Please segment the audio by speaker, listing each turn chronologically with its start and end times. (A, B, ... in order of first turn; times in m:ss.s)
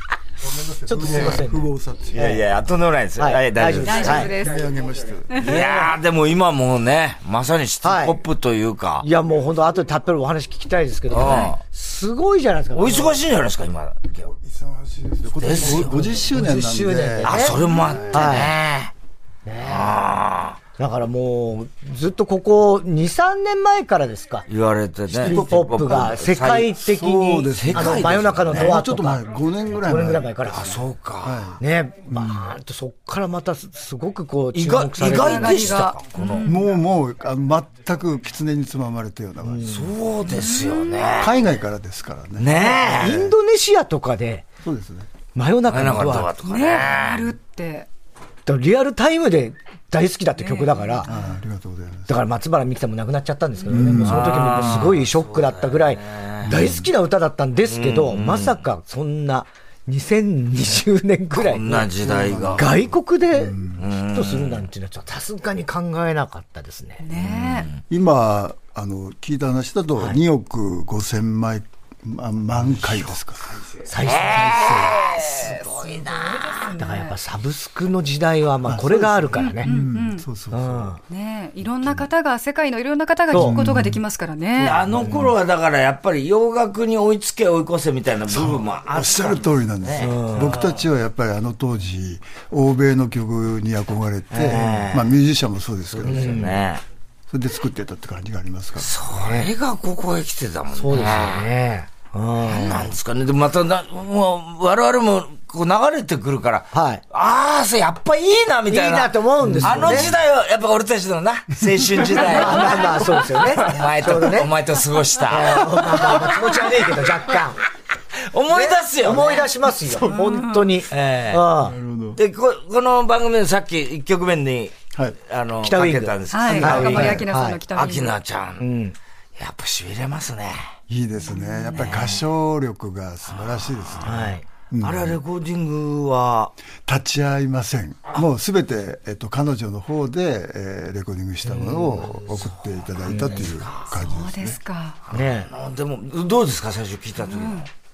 0:00.4-0:02.4 A
0:00.9-0:02.4 B
0:02.1-0:04.3 C
0:03.2-0:04.3 B
0:03.6-0:05.5 A
0:03.8-0:04.7 D
0:05.3-0:05.7 D
0:05.4-0:09.1 C
0:05.5-0:05.9 B
0:07.8-0:08.2 B
0:09.0-0:13.2 B
0:11.1-0:11.6 C
0:11.2-0:11.5 D
0:12.7-0:14.3 C
0:14.3-0:18.4 A
0:15.4-0:16.1 C
0:15.9-0:17.6 B
0:17.2-0:18.9 C
0:18.1-0:18.6 B
0:19.4-0:20.0 B
0:19.6-0:20.6 C
0:20.8-0:24.5 B
0:24.5-0:26.8 C
0:25.1-0:25.9 A
0:25.2-0:29.2 B
0:26.7-0:30.3 A
0:27.5-0:28.8 C
0:29.8-0:30.7 B
0:30.5-0:31.4 C
0:31.2-0:32.5 A
0:31.6-0:35.8 B
0:34.6-0:36.5 C
0:35.0-0:36.6 D
0:36.4-0:39.8 A
0:39.4-0:39.9 B
0:39.6-0:41.4 C
0:40.3-0:41.1 D
0:41.2-0:43.3 A
0:42.4-0:43.2 C
0:42.9-0:44.4 B
0:44.6-0:45.1 A
0:45.4-0:46.3 B
0:45.7-0:47.3 C
0:46.4-0:47.9 D
0:48.5-0:51.1 B
0:50.4-0:51.2 D
0:51.1-0:52.1 A
0:52.1-1:01.9 B
0:53.7-0:54.5 A
0:54.0-0:56.5 C
0:56.4-0:56.9 A
0:57.7-0:58.6 C
1:01.3-1:02.7 C
1:02.0-1:03.8 A
1:02.6-1:07.0 B
1:03.8-1:04.7 C
1:07.0-1:07.7 D
1:07.1-1:07.8 C
1:07.9-1:15.5 A
1:13.9-1:14.8 B
1:14.0-1:16.8 C
1:15.9-1:17.2 D
1:16.8-1:19.7 B
1:18.7-1:20.9 A
1:19.4-1:20.3 D
1:20.5-1:21.0 B
1:21.1-1:24.8 D
1:23.3-1:23.6 B
1:23.4-1:24.0 A
1:24.6-1:30.4 C
1:25.0-1:25.3 B
1:28.3-1:36.6 A
1:30.0-1:30.6 B
1:34.3-1:35.1 C
1:34.5-1:34.9 B
1:35.9-1:36.8 C
1:36.1-1:36.6 B
1:37.3-1:38.9 A
1:38.8-1:41.5 C
1:39.2-1:39.5 B
1:40.7-1:42.9 B
1:42.4-1:57.1 C
1:46.7-1:47.0 B
1:48.7-1:50.1 B
1:49.4-1:50.2 A
1:52.1-1:54.5 B
1:55.3-1:57.6 B
1:58.2-1:59.5 C
1:58.5-2:01.8 B
1:59.9-2:00.2 A
2:00.0-2:00.7 D
2:00.9-2:01.4 C
2:01.6-2:02.2 A
2:02.2-2:08.7 C
2:05.6-2:07.6 B
2:06.3-2:08.2 D
2:08.6-2:09.0 B
2:09.4-2:10.7 C
2:10.9-2:15.2 A
2:11.3-2:12.2 D
2:13.3-2:14.2 C
2:14.0-2:14.4 B
2:14.8-2:16.5 C
2:16.9-2:24.6 A
2:21.5-2:21.8 B
2:21.8-2:24.0 C
2:23.1-2:23.4 B
2:24.0-2:25.0 D
2:25.0-2:27.7 C
2:25.1-2:25.5 B
2:27.3-2:27.6 D